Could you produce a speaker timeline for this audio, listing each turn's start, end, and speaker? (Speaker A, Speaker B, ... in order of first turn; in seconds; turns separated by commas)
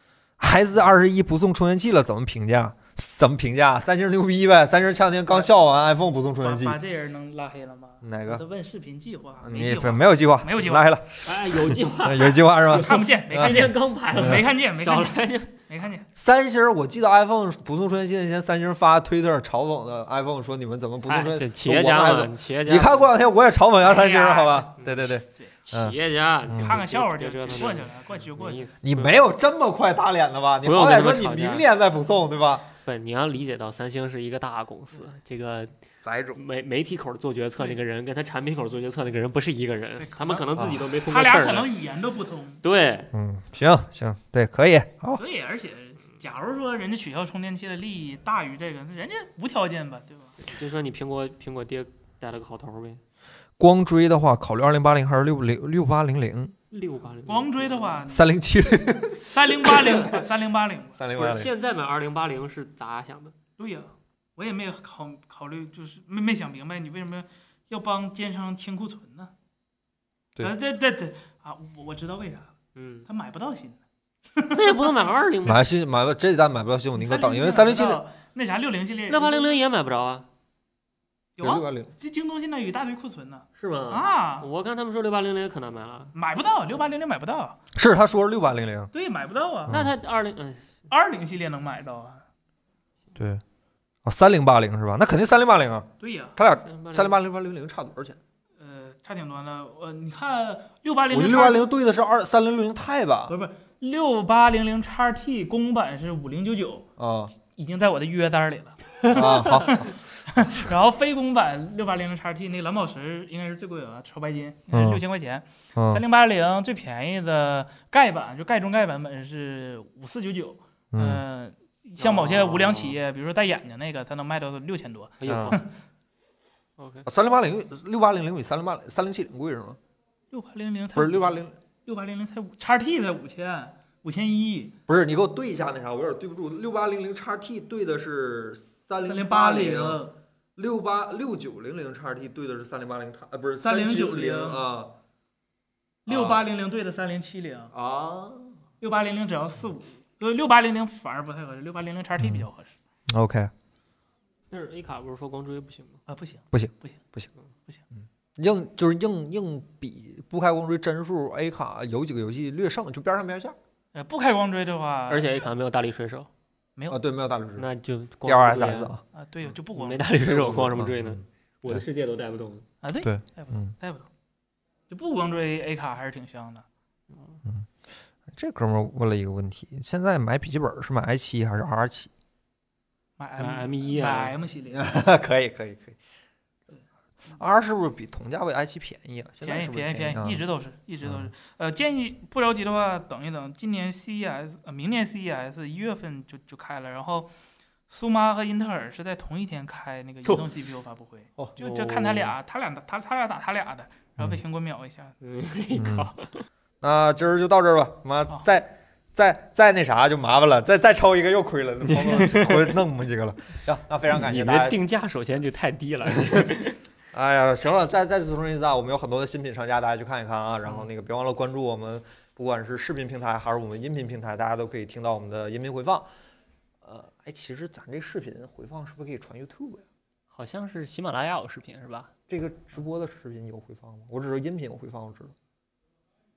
Speaker A: 0.4-6.8, Speaker B: 6.4-10.9, Speaker A: 8.0-8.4, Speaker A: 9.4-14.4, Speaker C: 11.2-15.5, Speaker B: 12.7-16.1, Speaker A: 16.1-26.0, Speaker C: 21.1-23.1, Speaker B: 23.8-25.5, Speaker C: 25.6-29.2, Speaker A: 26.5-26.8, Speaker B: 26.6-28.7, Speaker A: 28.8-32.7, Speaker C: 30.6-31.7, Speaker C: 32.9-35.8, Speaker A: 36.0-36.4, Speaker C: 36.4-41.7, Speaker B: 40.0-42.6, Speaker A: 40.6-40.8, Speaker C: 42.6-43.1, Speaker A: 43.1-45.2, Speaker B: 45.2-50.4, Speaker C: 50.4-53.0, Speaker A: 53.6-56.5, Speaker C: 56.7-58.0, Speaker B: 57.3-58.4, Speaker A: 58.1-60.3, Speaker B: 59.1-61.0, Speaker A: 60.9-61.5, Speaker C: 61.1-63.4, Speaker B: 63.6-69.3, Speaker B: 70.4-72.5, Speaker C: 72.8-73.1, Speaker B: 73.1-73.8, Speaker B: 74.3-75.1, Speaker C: 74.5-75.7, Speaker A: 75.4-78.0, Speaker B: 77.0-79.6, Speaker C: 79.1-80.3, Speaker B: 81.4-84.5, Speaker A: 81.4-81.9, Speaker C: 83.6-86.1, Speaker B: 86.1-87.6, Speaker A: 87.8-88.9, Speaker B: 88.9-89.7, Speaker A: 89.7-89.9, Speaker C: 89.7-90.7, Speaker B: 90.9-92.2, Speaker A: 93.2-93.4, Speaker A: 94.0-98.2, Speaker B: 96.0-96.4, Speaker C: 96.6-97.2, Speaker B: 98.6-101.7, Speaker A: 101.1-103.3, Speaker B: 103.3-106.9, Speaker A: 107.0-107.3, Speaker B: 107.5-125.7, Speaker A: 109.1-110.5, Speaker A: 114.7-115.0, Speaker A: 115.8-116.0, Speaker A: 120.9-121.2, Speaker C: 122.0-123.0, Speaker C: 125.2-125.6, Speaker A: 125.3-125.6, Speaker C: 126.8-127.1, Speaker A: 127.0-129.8, Speaker B: 130.3-134.7, Speaker A: 130.9-131.6, Speaker A: 134.9-140.0, Speaker B: 139.0-140.2, Speaker A: 140.6-144.9, Speaker B: 143.6-144.6, Speaker A: 146.1-146.4, Speaker B: 146.1-147.7, Speaker A: 147.7-148.6, Speaker B: 148.8-152.7, Speaker A: 152.2-152.5, Speaker A: 153.1-153.5, Speaker C: 154.5-156.0, Speaker B: 156.1-157.0, Speaker A: 156.5-157.3, Speaker A: 158.4-163.6, Speaker B: 163.9-165.5, Speaker C: 165.1-166.3, Speaker A: 166.9-167.7, Speaker C: 167.6-168.9, Speaker A: 168.2-169.0, Speaker B: 169.1-170.7, Speaker C: 169.7-172.7, Speaker A: 170.5-171.8, Speaker B: 172.8-174.1, Speaker A: 173.0-173.7, Speaker B: 174.9-176.7, Speaker A: 177.4-177.7, Speaker A: 178.3-182.1, Speaker B: 183.2-184.9, Speaker C: 183.4-184.4, Speaker A: 184.7-186.0, Speaker A: 187.3-190.4, Speaker B: 189.4-197.3, Speaker A: 191.0-191.3, Speaker B: 197.9-205.2, Speaker C: 201.6-202.4, Speaker C: 205.2-206.5, Speaker A: 205.8-206.1, Speaker A: 206.8-214.8, Speaker C: 211.9-212.7, Speaker C: 214.1-216.8, Speaker A: 217.1-226.1, Speaker A: 226.8-229.9, Speaker C: 230.3-232.1, Speaker A: 232.3-235.3